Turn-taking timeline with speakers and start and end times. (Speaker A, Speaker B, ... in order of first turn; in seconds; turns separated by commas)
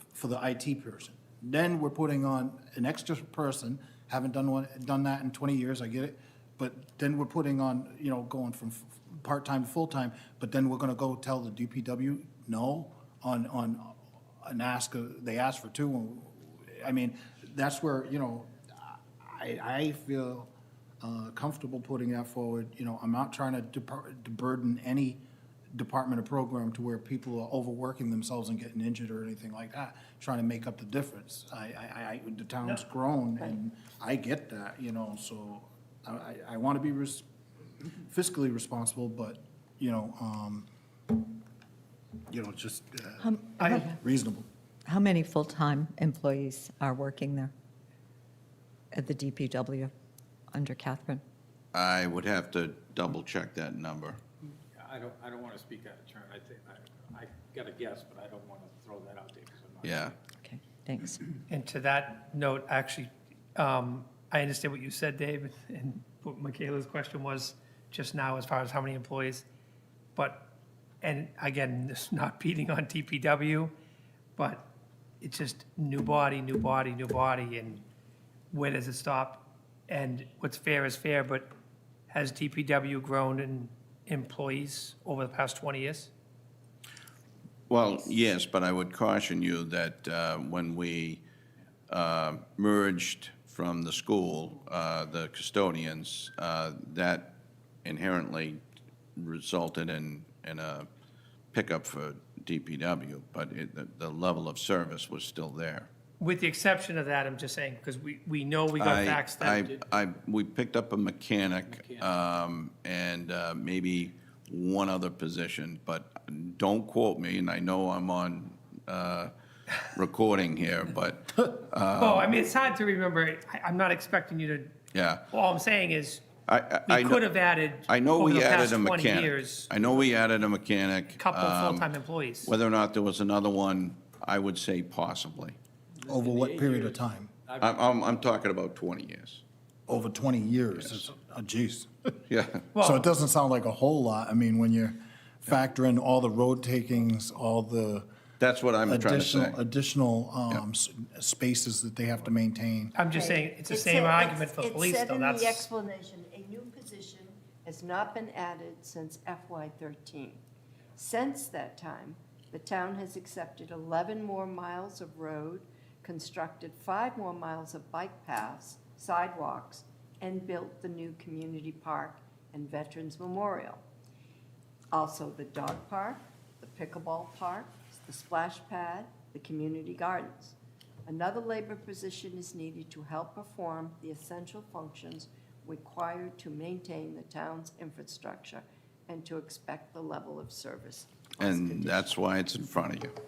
Speaker A: 0.1-25.2, Speaker A: 25.7-37.2, Speaker A: 37.9-41.2, Speaker A: 42.3-44.5, Speaker B: 43.2-43.9, Speaker C: 43.6-43.8, Speaker B: 44.8-47.5, Speaker B: 48.9-49.9, Speaker B: 50.5-51.2, Speaker D: 51.7-54.2, Speaker E: 54.7-60.3, Speaker D: 59.8-60.1, Speaker B: 60.4-61.2, Speaker C: 61.5-69.5, Speaker C: 70.2-70.4, Speaker C: 71.0-73.7, Speaker C: 74.4-74.7, Speaker C: 75.2-77.8, Speaker C: 78.5-81.5, Speaker C: 82.1-86.1, Speaker D: 87.7-91.2, Speaker D: 91.9-98.6, Speaker D: 99.2-100.9, Speaker D: 101.5-105.9, Speaker C: 106.2-109.6, Speaker D: 108.8-119.3, Speaker E: 109.5-110.0, Speaker E: 111.6-112.4, Speaker D: 119.8-122.3, Speaker C: 121.9-124.8, Speaker D: 124.9-125.2, Speaker C: 125.3-126.2, Speaker D: 126.5-127.2, Speaker C: 126.9-129.7, Speaker D: 127.9-131.9, Speaker C: 131.1-132.5, Speaker D: 132.4-135.6, Speaker E: 136.0-137.7, Speaker A: 136.0-137.3, Speaker D: 137.6-139.4, Speaker A: 139.9-142.2, Speaker D: 142.3-142.7, Speaker C: 142.7-143.1, Speaker A: 142.8-148.1, Speaker D: 148.4-149.6, Speaker A: 148.8-152.9, Speaker C: 152.9-155.7, Speaker F: 153.1-160.4, Speaker F: 160.9-173.8, Speaker F: 174.9-192.1, Speaker D: 191.4-193.1